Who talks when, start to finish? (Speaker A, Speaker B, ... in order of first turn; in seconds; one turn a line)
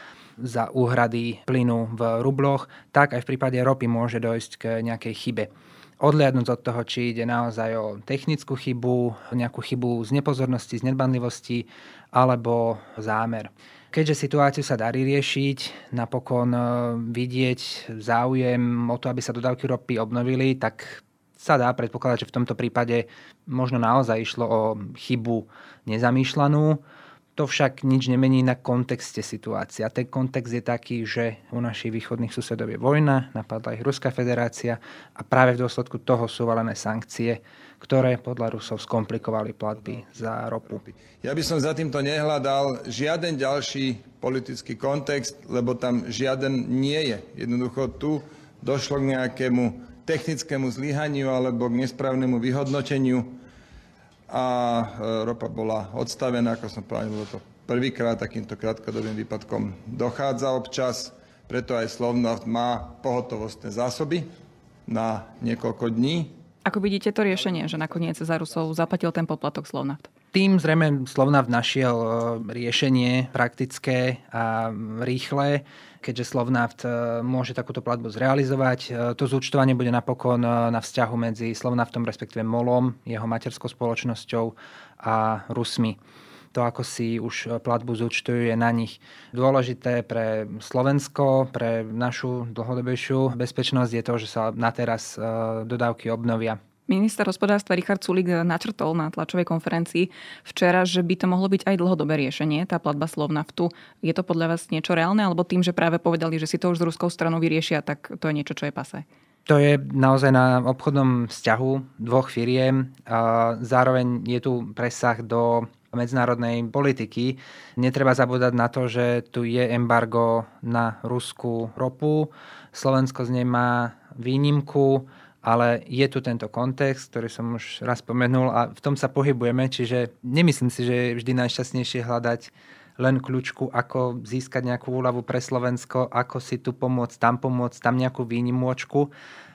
Speaker A: 0.4-26.8
Speaker A: 27.4-40.8
Speaker B: 40.8-53.3
Speaker B: 54.3-64.3
Speaker B: 64.9-66.3
Speaker C: 66.6-70.1
Speaker A: 70.3-86.0
Speaker A: 86.5-96.6
Speaker C: 96.9-109.0
Speaker A: 109.5-139.1